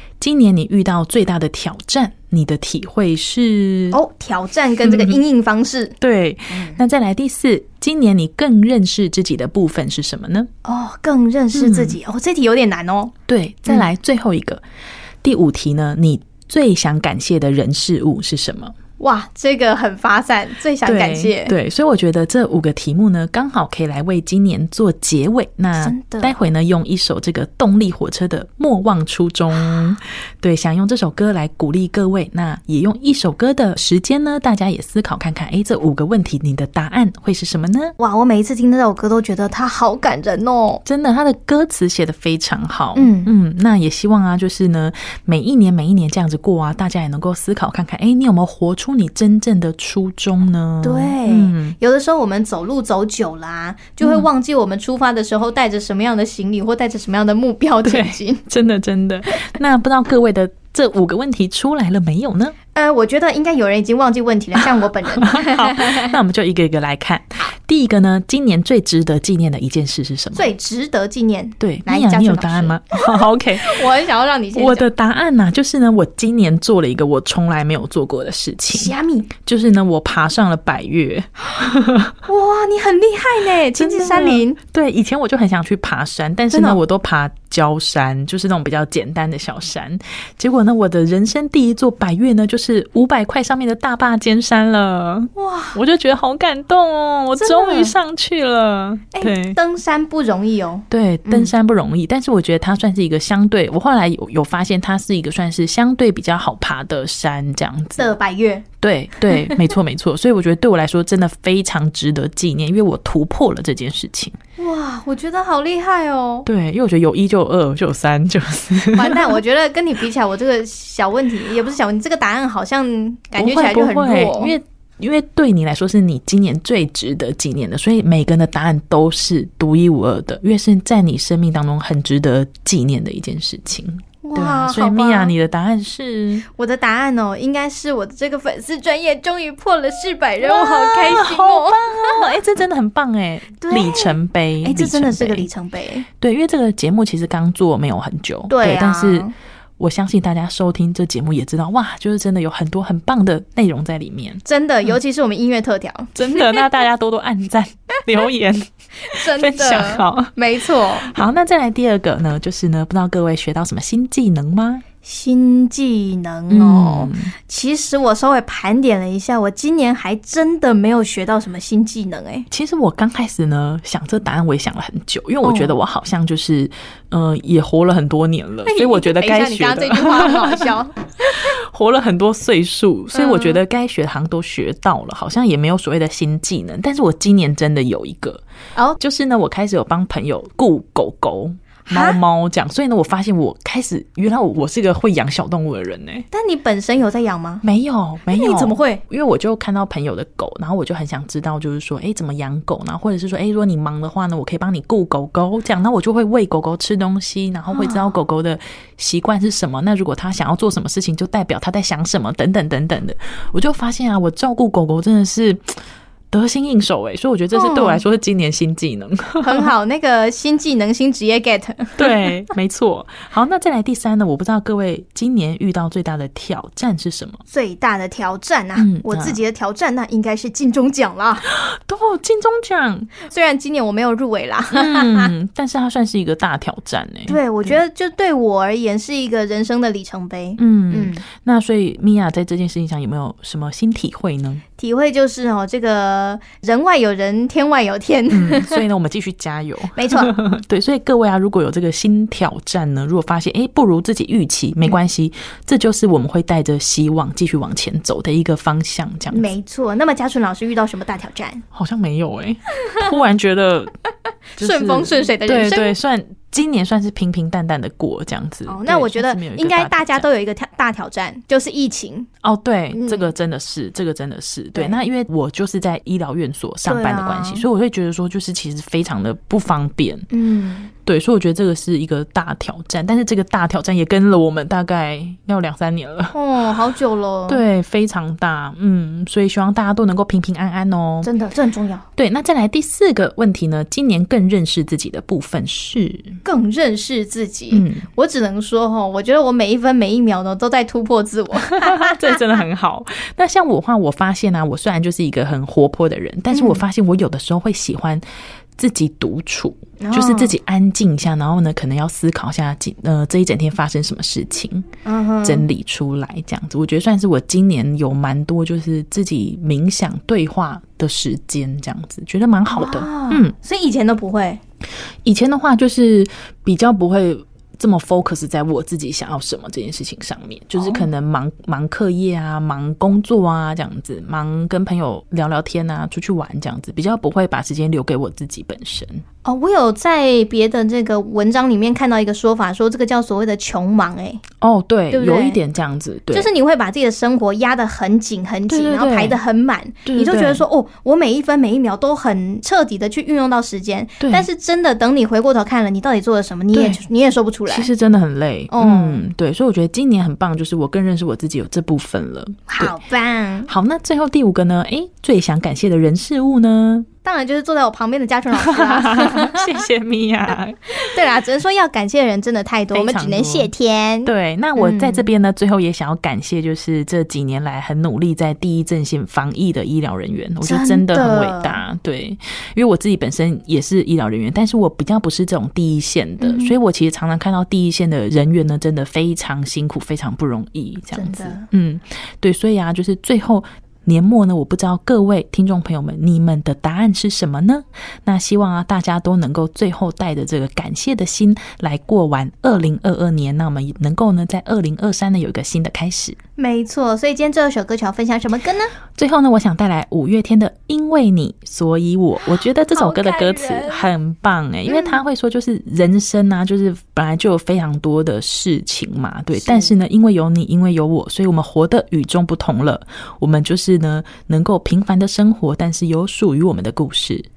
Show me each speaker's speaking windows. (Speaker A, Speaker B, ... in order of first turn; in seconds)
Speaker A: 0.2-4.0, 4.8-5.2, 6.0-10.5, 11.5-12.0, 13.3-14.6, 15.2-18.7, 20.8-37.9, 40.8-51.8, 54.0-54.3, 57.8-62.5, 64.8-70.5, 71.6-73.8, 74.5-78.9, 79.4-82.1, 83.7-99.6, 100.9-108.1, 108.8-114.3, 116.4-119.4, 123.4-136.4, 140.4-145.5, 146.2-149.3, 149.8-154.9, 156.1-164.8, 166.5-167.3, 172.5-180.6, 181.6-188.4, 189.0-196.2, 197.6-215.7, 216.3-219.7, 222.0-227.4, 228.8-229.4, 231.4-233.1, 234.7-237.8, 240.6-244.6, 248.3-259.4, 261.7-263.9, 264.6-270.3, 272.4-280.3, 281.0-286.3, 287.5-291.3, 292.2-296.4, 297.7-298.1, 301.6-308.2, 308.8-314.9, 315.4-323.5, 325.2-339.2, 344.6-346.5, 348.7-349.4, 350.0-350.6, 354.2-354.5, 356.7-357.0, 357.7-363.0, 363.7-367.1, 368.6-371.3, 372.9-373.7, 374.2-406.4, 409.2-427.4
Speaker B: 3.9-6.0, 6.5-6.8, 10.6-13.1, 19.0-21.5, 25.8-26.3, 29.6-29.9, 38.0-40.8, 42.9-43.3, 50.8-58.4, 62.7-66.1, 70.3-74.8, 78.7-79.3, 82.2-84.6, 86.5-86.8, 95.3-95.8, 97.4-97.9, 99.1-101.5, 108.0-108.6, 109.3-109.6, 114.6-116.5, 118.9-124.5, 134.2-135.3, 136.5-142.3, 143.6-146.1, 148.5-149.3, 154.4-156.6, 159.0-161.1, 165.0-172.5, 175.4-175.7, 178.7-181.4, 183.1-183.6, 191.9-192.2, 196.3-197.6, 198.3-199.0, 207.7-208.1, 217.5-218.0, 219.4-222.2, 227.5-231.4, 233.2-235.3, 237.3-241.2, 244.8-248.8, 249.9-250.3, 259.3-261.6, 264.6-265.9, 268.7-272.3, 272.9-273.3, 276.8-277.6, 280.3-280.9, 286.3-287.6, 291.2-292.1, 296.4-302.1, 306.5-306.8, 310.0-310.5, 315.0-315.6, 322.7-324.6, 330.8-331.1, 339.4-344.4, 345.1-345.6, 346.3-357.9, 358.7-359.2, 362.7-363.7, 367.2-369.8, 371.0-375.3, 380.6-381.8, 386.4-386.7, 391.1-391.6, 406.6-408.9, 412.4-414.1, 414.9-415.2, 419.5-419.9